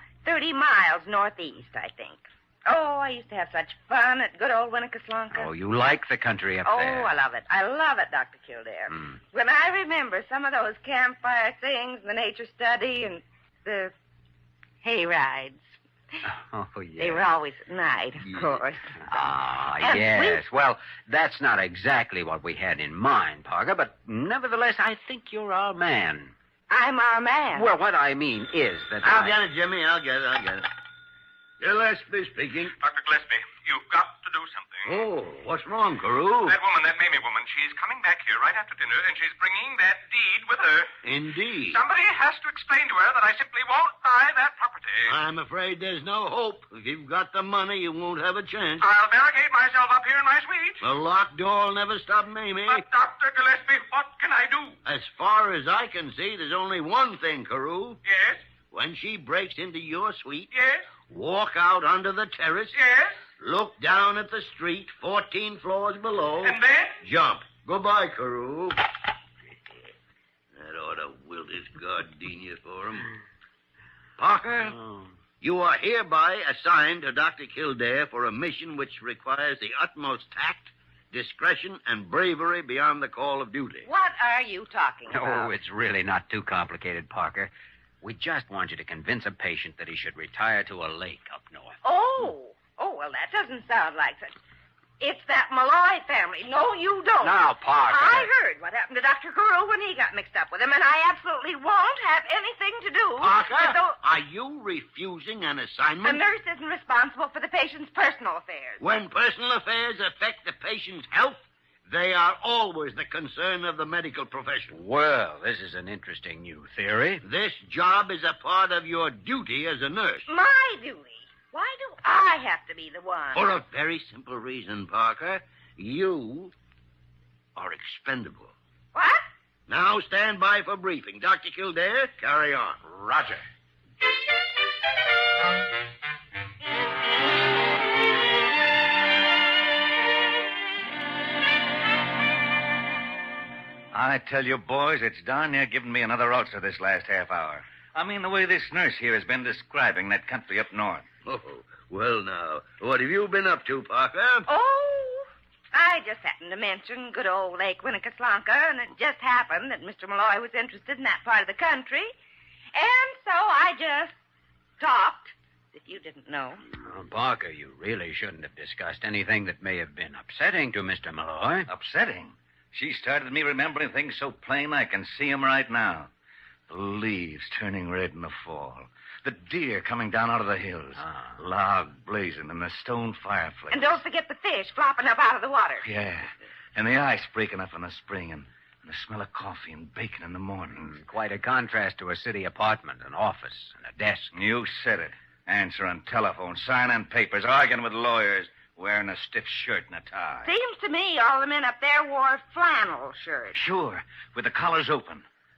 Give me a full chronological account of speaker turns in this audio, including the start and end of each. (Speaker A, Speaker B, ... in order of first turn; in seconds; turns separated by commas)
Speaker A: 0.2-5.5, Speaker B: 5.3-7.1, Speaker A: 6.7-13.9, Speaker A: 14.8-15.7, Speaker B: 16.2-17.2, Speaker A: 17.0-19.0, Speaker B: 19.1-26.3, Speaker A: 19.8-20.4, Speaker A: 26.7-27.7, Speaker B: 27.5-29.4, Speaker C: 29.0-30.7, Speaker C: 31.6-32.8, Speaker D: 32.8-35.0, Speaker C: 34.9-36.6, Speaker D: 36.5-40.9, Speaker C: 41.0-41.8, Speaker D: 41.7-45.1, Speaker C: 45.1-48.9, Speaker D: 48.8-50.8, Speaker C: 50.8-52.9, Speaker D: 52.7-54.8, Speaker C: 54.9-58.0, Speaker D: 58.0-58.4, Speaker C: 58.7-60.5, Speaker D: 60.5-60.9, Speaker C: 61.1-62.8, Speaker D: 62.7-63.2, Speaker C: 63.4-68.8, Speaker D: 66.4-67.0, Speaker C: 70.6-73.1, Speaker C: 74.2-74.8, Speaker C: 75.4-83.9, Speaker A: 83.8-85.5, Speaker B: 85.1-87.5, Speaker B: 88.0-91.8, Speaker A: 91.8-94.3, Speaker A: 95.0-104.0, Speaker B: 97.2-98.3, Speaker C: 103.2-106.2, Speaker A: 106.0-108.8, Speaker C: 108.8-114.8, Speaker B: 114.7-117.2, Speaker C: 117.2-120.3, Speaker A: 120.3-123.5, Speaker C: 123.3-126.5, Speaker C: 127.6-128.5, Speaker A: 128.9-129.2, Speaker C: 129.7-132.8, Speaker D: 132.8-133.4, Speaker E: 143.9-151.1, Speaker C: 151.2-154.5, Speaker A: 154.5-162.1, Speaker A: 162.7-164.1, Speaker A: 164.8-166.6, Speaker B: 166.7-171.7, Speaker E: 171.7-176.1, Speaker E: 176.7-184.0, Speaker A: 183.7-185.8, Speaker E: 185.8-190.9, Speaker B: 190.8-194.3, Speaker E: 194.3-200.5, Speaker A: 200.4-203.6, Speaker E: 203.5-205.2